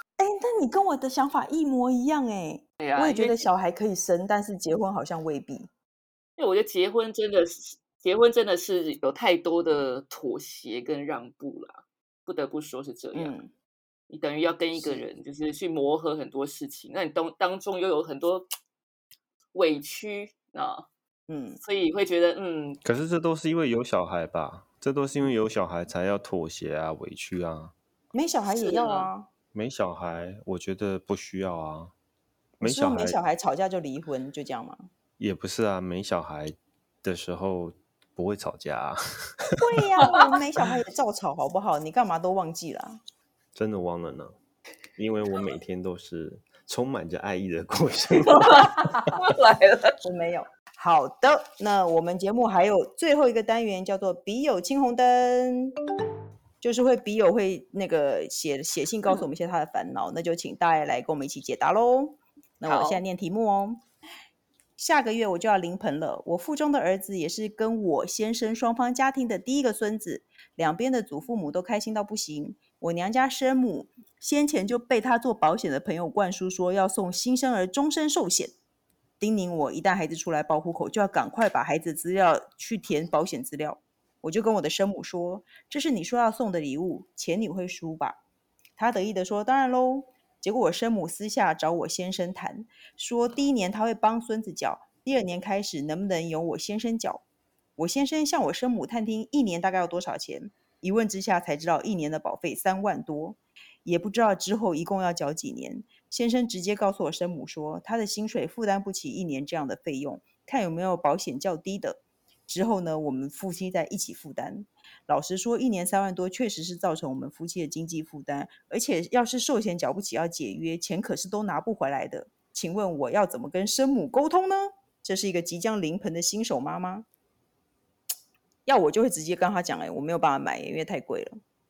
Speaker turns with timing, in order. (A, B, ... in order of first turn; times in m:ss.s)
0:00.2-0:05.7 A
0:02.8-0:03.5 B
0:06.4-0:13.4 B
0:13.1-0:13.5 A
0:14.1-0:18.4 B
0:14.8-0:15.0 A
0:19.5-0:20.9 B
0:21.3-0:21.6 A
0:21.6-0:22.8 B
0:22.8-0:27.7 C
0:28.1-0:29.3 A
0:28.5-0:29.1 B
0:29.5-0:31.9 C
0:32.6-0:33.2 C
0:32.6-0:34.9 A
0:35.2-0:39.6 C
0:39.6-0:43.0 A
0:40.0-0:40.3 B
0:43.6-0:44.4 C
0:45.0-0:48.7 C
0:48.2-0:49.9 B
0:50.0-0:55.7 A
0:56.6-1:03.8 A
1:02.6-1:03.0 B
1:04.8-1:18.5 A
1:19.2-1:28.2 A
1:28.8-1:37.2 A
1:37.8-2:07.1 A
2:08.6-2:11.4 A